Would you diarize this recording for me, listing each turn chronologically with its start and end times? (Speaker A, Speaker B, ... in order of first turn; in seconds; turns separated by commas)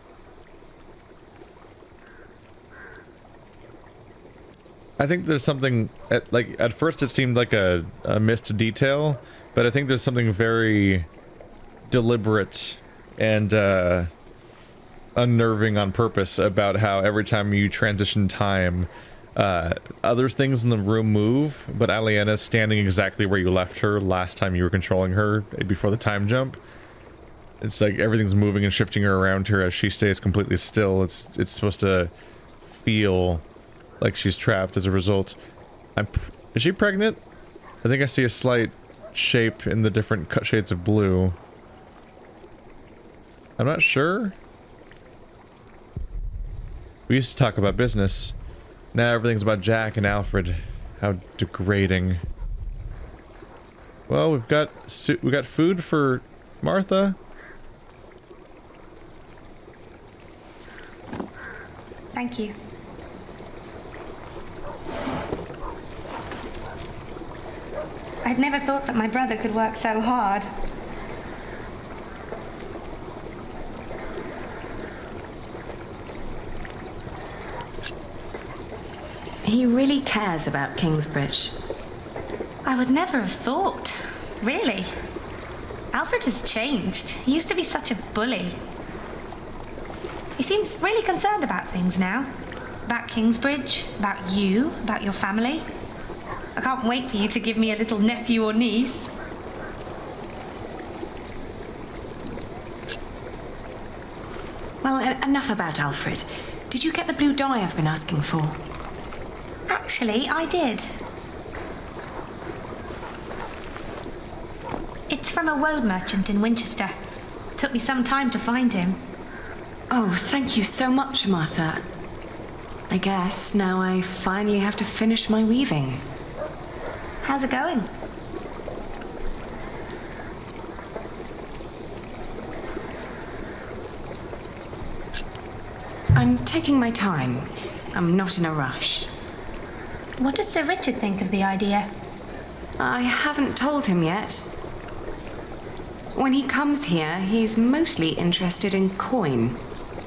Speaker A: 5.0-11.1, Speaker A: 11.9-14.1, Speaker A: 15.2-26.6, Speaker A: 27.6-32.1, Speaker A: 32.6-33.4, Speaker A: 34.0-35.4, Speaker A: 36.0-37.2, Speaker A: 37.8-41.4, Speaker A: 43.6-44.4, Speaker A: 47.1-48.4, Speaker A: 48.9-52.2, Speaker A: 54.1-57.2, Speaker B: 62.1-62.5, Speaker B: 68.2-70.5, Speaker C: 79.4-81.5, Speaker B: 82.7-85.0, Speaker B: 85.9-88.6, Speaker B: 90.4-92.3, Speaker B: 92.9-95.7, Speaker B: 96.6-99.1, Speaker C: 104.8-108.6, Speaker B: 109.7-110.9, Speaker B: 115.1-117.0, Speaker B: 117.6-119.0, Speaker C: 119.9-121.8, Speaker C: 122.9-126.0, Speaker B: 127.2-127.9, Speaker C: 136.1-139.1, Speaker B: 140.2-141.9, Speaker C: 142.8-144.5, Speaker C: 146.2-149.6